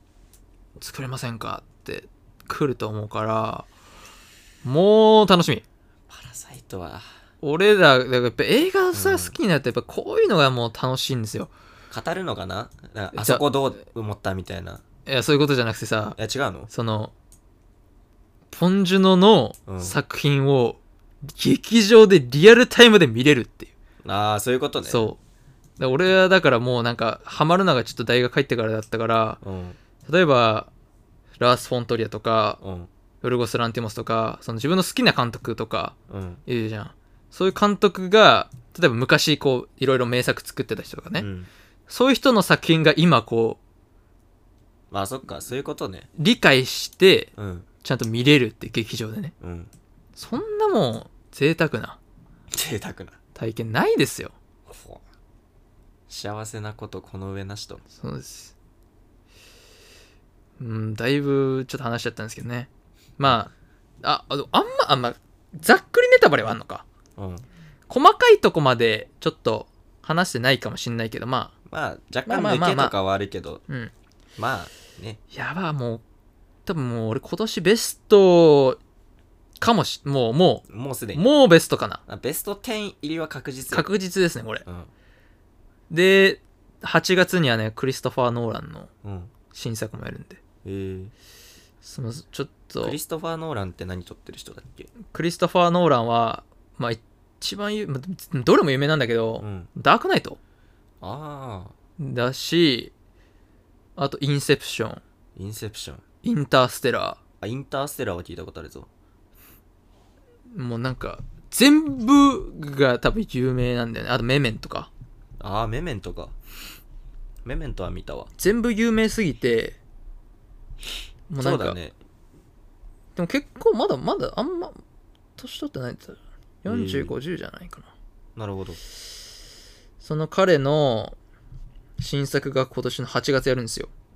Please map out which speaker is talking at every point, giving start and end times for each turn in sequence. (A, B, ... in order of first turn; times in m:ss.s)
0:00.8-0:03.7 A
0:04.6-0:05.6 A
0:06.1-0:07.0 B
0:07.4-0:11.5 A
0:08.9-0:09.4 B
0:11.9-0:14.8 B
0:13.1-0:13.4 A
0:15.0-0:16.2 A
0:16.2-0:16.7 B
0:16.7-0:17.1 A
0:18.5-0:23.7 A
0:19.7-0:20.0 B
0:24.0-0:25.0 B
0:24.8-0:25.2 A
0:25.8-0:29.4 A
0:29.4-0:29.8 B
0:30.0-0:30.7 A
0:31.4-0:32.6 A
0:32.6-0:32.9 B
0:33.2-0:35.9 A
0:36.1-0:36.4 B
0:36.5-0:41.3 A
0:41.2-0:41.5 B
0:41.9-0:43.6 A
0:44.9-0:46.1 B
0:46.2-0:47.3 A
0:47.4-0:47.7 B
0:47.8-0:49.3 A
0:49.4-0:49.7 B
0:50.2-0:52.0 A
0:52.5-0:53.2 B
0:53.3-0:54.3 A
0:54.7-0:55.0 B
0:56.1-0:57.8 B
0:57.9-0:58.5 A
1:00.6-1:03.5 A
1:04.0-1:06.8 A
1:07.2-1:07.4 B
1:07.9-1:11.5 A
1:11.7-1:13.6 B
1:12.2-1:12.9 A
1:14.4-1:15.2 B
1:15.3-1:16.0 A
1:16.6-1:18.8 A
1:19.6-1:22.0 A
1:20.7-1:21.3 B
1:22.1-1:23.9 B
1:23.7-1:24.6 A
1:24.6-1:24.9 B
1:25.9-1:28.9 A
1:29.0-1:29.3 B
1:29.5-1:30.4 A
1:30.6-1:31.1 B
1:31.8-1:33.0 A
1:32.8-1:34.9 B
1:35.1-1:40.4 A
1:39.4-1:39.7 B
1:41.0-1:41.7 B
1:42.0-1:42.9 A
1:44.0-1:45.0 A
1:45.4-1:46.0 B
1:46.2-1:47.2 A
1:47.4-1:48.9 B
1:50.5-1:54.9 A
1:55.4-1:56.3 B
1:57.4-1:58.3 B
1:58.4-1:59.8 A
2:01.3-2:01.8 A
2:01.4-2:01.9 B
2:03.2-2:04.8 A
2:05.4-2:07.9 A
2:06.6-2:07.1 B
2:08.4-2:08.8 B
2:10.0-2:11.2 A
2:12.0-2:13.9 A